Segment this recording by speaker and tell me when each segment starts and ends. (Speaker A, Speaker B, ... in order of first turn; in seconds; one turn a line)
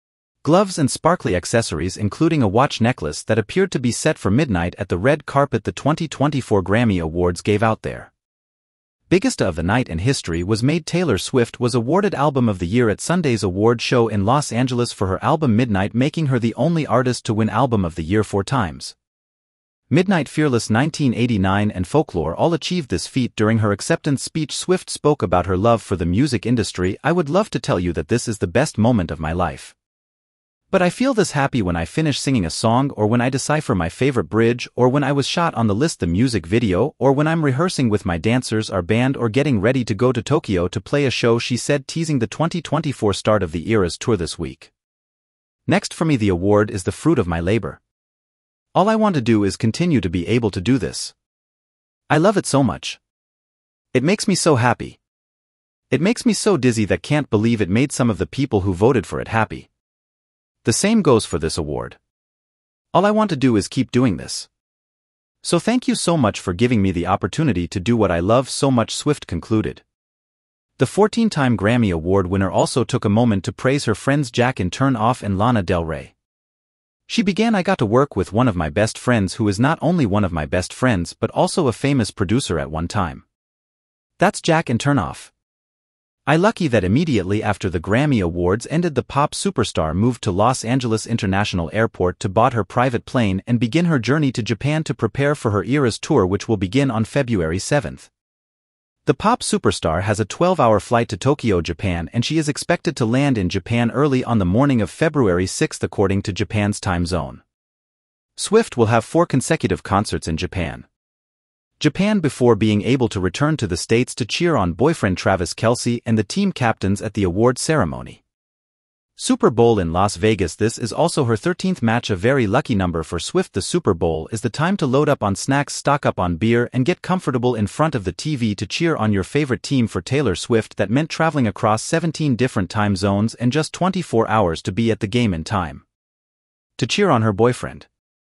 Speaker A: 0.4-8.1
Speaker A: 9.1-18.9
Speaker A: 19.9-29.7
Speaker A: 30.7-44.7
Speaker A: 45.7-47.8
Speaker A: 48.7-51.1
Speaker A: 52.1-53.0
Speaker A: 53.9-55.0
Speaker A: 55.9-59.7
Speaker A: 60.6-62.0
Speaker A: 62.9-64.5
Speaker A: 65.4-69.8
Speaker A: 70.8-76.1
Speaker A: 77.1-83.2
Speaker A: 84.2-85.3
Speaker A: 86.2-98.1
Speaker A: 99.0-107.4
Speaker A: 108.3-110.8
Speaker A: 111.8-118.2
Speaker A: 119.2-135.8
Speaker A: 136.8-137.9